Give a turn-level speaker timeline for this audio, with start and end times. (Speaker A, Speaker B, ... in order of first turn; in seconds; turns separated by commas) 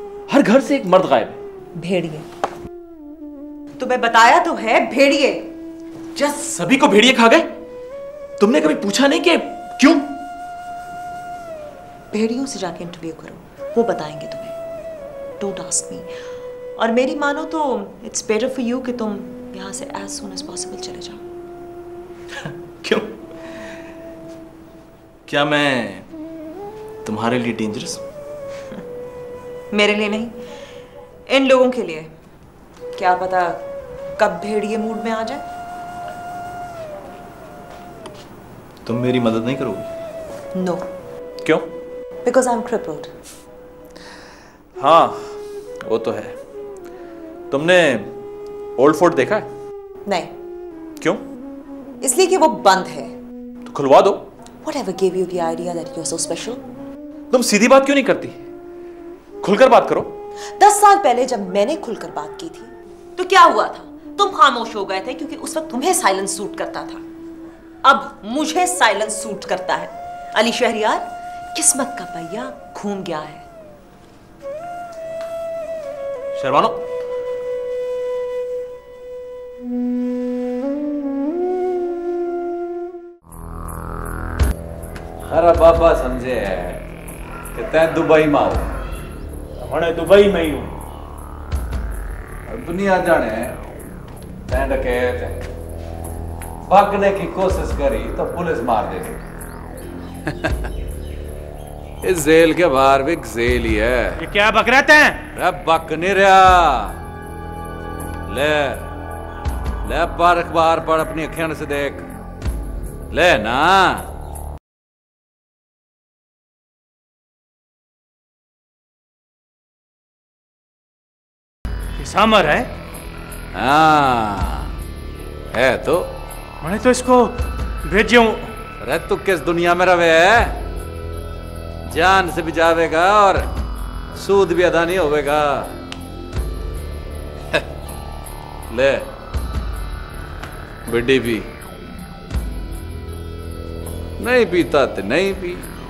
Speaker A: 0.3-1.4, Speaker B: 1.8-2.3, Speaker B: 3.8-5.5, Speaker A: 6.1-7.5, Speaker A: 8.4-10.1, Speaker B: 12.1-14.6, Speaker B: 15.4-16.1, Speaker B: 16.8-21.2, Speaker A: 22.4-23.7, Speaker A: 25.3-26.1, Speaker A: 27.0-28.0, Speaker B: 29.7-30.4, Speaker B: 31.3-32.1, Speaker B: 33.0-33.6, Speaker B: 34.2-35.4, Speaker A: 38.8-39.9, Speaker B: 40.5-40.9, Speaker A: 41.4-41.7, Speaker B: 42.2-43.1, Speaker A: 44.8-46.4, Speaker A: 47.5-48.1, Speaker A: 48.8-49.5, Speaker B: 50.0-50.3, Speaker A: 51.0-51.2, Speaker B: 52.0-53.1, Speaker A: 53.6-54.3, Speaker B: 54.6-56.6, Speaker A: 57.3-58.4, Speaker A: 59.4-60.2, Speaker B: 60.6-67.0, Speaker B: 67.8-73.5, Speaker A: 76.3-76.8, Speaker C: 85.2-86.8, Speaker C: 87.5-88.8, Speaker D: 89.6-90.7, Speaker C: 92.5-93.6, Speaker C: 94.5-95.4, Speaker C: 96.6-99.2, Speaker C: 100.3-100.5, Speaker C: 102.0-104.2, Speaker D: 104.2-105.2, Speaker C: 105.3-107.0, Speaker C: 108.3-108.9, Speaker C: 109.8-112.1, Speaker C: 113.1-114.1, Speaker D: 122.0-122.7, Speaker C: 123.5-124.7, Speaker C: 125.5-126.1, Speaker D: 126.6-127.3, Speaker D: 127.8-128.5, Speaker C: 128.8-130.6, Speaker C: 131.8-133.5, Speaker C: 134.1-135.8, Speaker C: 138.7-139.1, Speaker C: 140.8-141.5, Speaker C: 144.2-145.7